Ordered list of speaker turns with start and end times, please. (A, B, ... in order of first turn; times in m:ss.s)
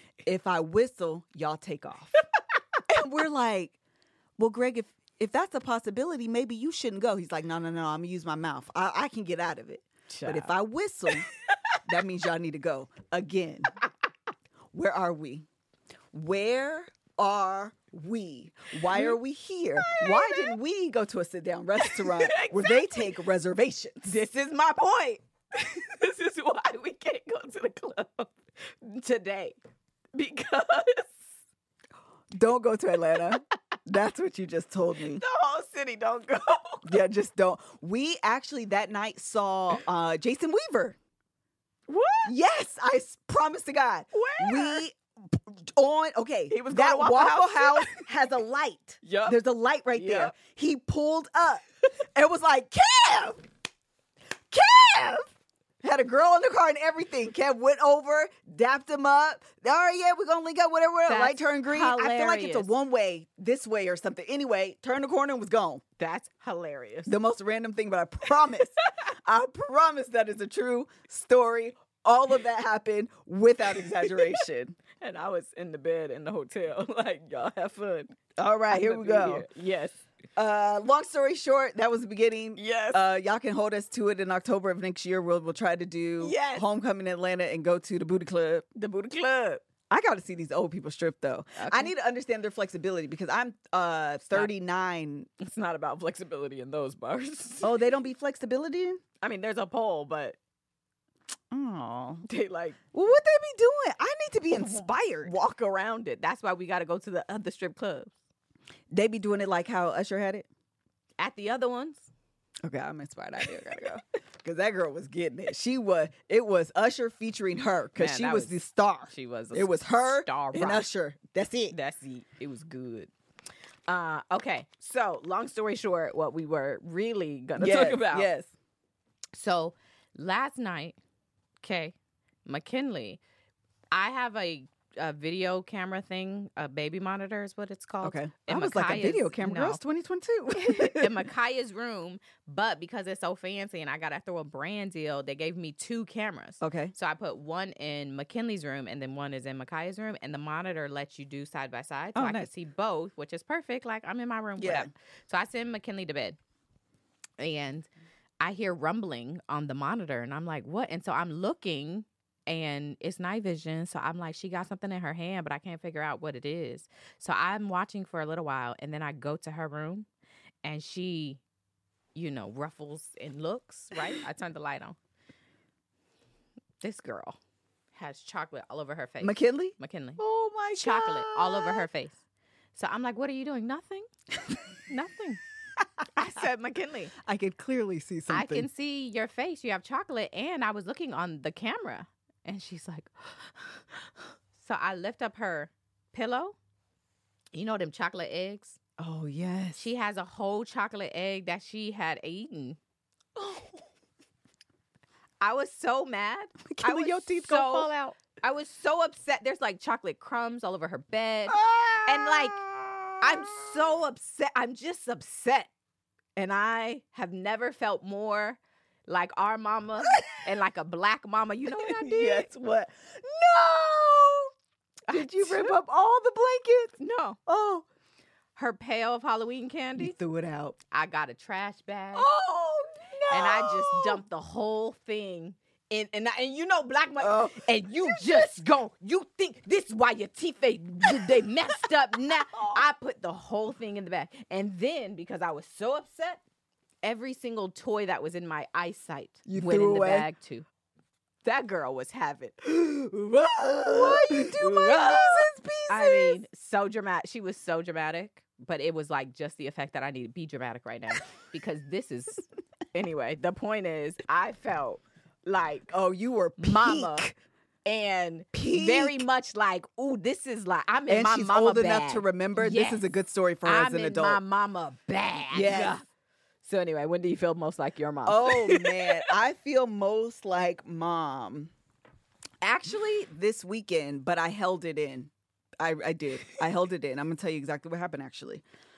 0:00.2-0:02.2 A
0:02.9-0:03.8 A
0:04.4-0:11.3 A
0:10.1-0:10.5 B
0:11.1-0:11.8 B
0:11.8-0:13.8 A
0:14.7-0:15.5 A
0:16.1-0:24.2 A
0:18.8-0:19.2 B
0:19.8-0:20.6 B
0:21.8-0:23.2 B
0:24.1-0:29.6 B
0:30.1-0:31.2 B
0:32.3-0:35.2 A
0:33.1-0:33.4 B
0:35.1-0:37.0 B
0:36.8-0:41.0 A
0:41.9-0:42.3 B
0:42.2-0:53.4 A
0:44.1-0:44.8 B
0:46.5-0:48.0 B
0:49.0-0:49.4 B
0:50.0-0:50.3 B
0:54.5-0:55.3 A
0:55.8-1:05.8 A
1:01.1-1:02.7 B
1:06.0-1:07.1 B
1:07.1-1:14.8 A
1:13.8-1:14.4 B
1:15.0-1:18.2 B
1:18.4-1:19.5 A
1:18.7-1:20.0 B
1:20.4-1:28.7 A
1:22.6-1:23.0 B
1:26.2-1:26.7 B
1:28.8-1:29.6 B
1:29.9-1:35.3 A
1:31.6-1:31.9 B
1:35.4-1:37.7 B
1:37.6-1:39.0 A
1:39.2-1:40.4 B
1:41.5-1:42.3 A
1:42.3-1:42.8 B
1:42.9-1:45.3 A
1:44.6-1:48.1 B
1:48.9-1:50.5 A
1:51.2-1:52.1 B
1:52.6-2:01.8 A
1:58.0-1:58.6 B
1:59.1-2:00.9 B
2:01.7-2:03.1 B
2:03.9-2:08.3 B
2:07.6-2:08.5 A
2:09.3-2:11.0 B
2:11.6-2:13.2 B
2:13.9-2:19.8 B
2:18.0-2:21.2 A
2:20.5-2:36.4 B
2:26.6-2:26.9 A
2:32.2-2:32.5 A
2:34.6-2:34.9 A
2:37.4-2:37.9 B
2:38.4-2:50.1 B
2:50.6-2:51.4 B
2:52.2-2:55.0 B
2:56.8-2:57.4 B
2:57.9-3:00.2 B
2:59.2-3:01.9 A
3:00.8-3:02.2 B
3:02.8-3:04.1 B
3:04.9-3:05.4 B
3:06.2-3:07.1 B
3:07.2-3:08.7 A
3:08.3-3:16.6 B
3:17.5-3:18.8 B
3:19.0-3:19.8 A
3:19.8-3:22.8 B
3:23.4-3:23.8 A
3:25.4-3:32.6 B
3:26.6-3:27.9 A
3:31.5-3:33.2 A
3:33.2-3:35.7 B
3:36.4-3:42.5 B
3:40.0-3:40.4 A
3:41.8-3:44.5 A
3:45.1-3:45.8 B
3:45.1-3:47.0 A
3:47.0-3:47.4 B
3:47.5-3:47.9 A
3:48.6-3:50.2 B
3:50.0-3:50.8 A
3:50.9-3:52.3 B
3:52.1-3:54.2 A
3:53.3-4:06.4 B
3:57.2-3:58.5 A
4:01.0-4:01.3 A
4:02.5-4:02.8 A
4:07.0-4:10.7 B
4:09.5-4:10.3 A
4:11.4-4:25.9 B
4:13.8-4:16.4 A
4:25.9-4:27.4 A
4:26.6-4:27.3 B
4:27.8-4:33.1 B
4:28.5-4:29.3 A
4:31.1-4:34.4 A
4:33.6-4:36.0 B
4:35.5-4:36.0 A
4:36.6-4:39.3 B
4:38.3-4:41.7 A
4:42.6-4:48.6 A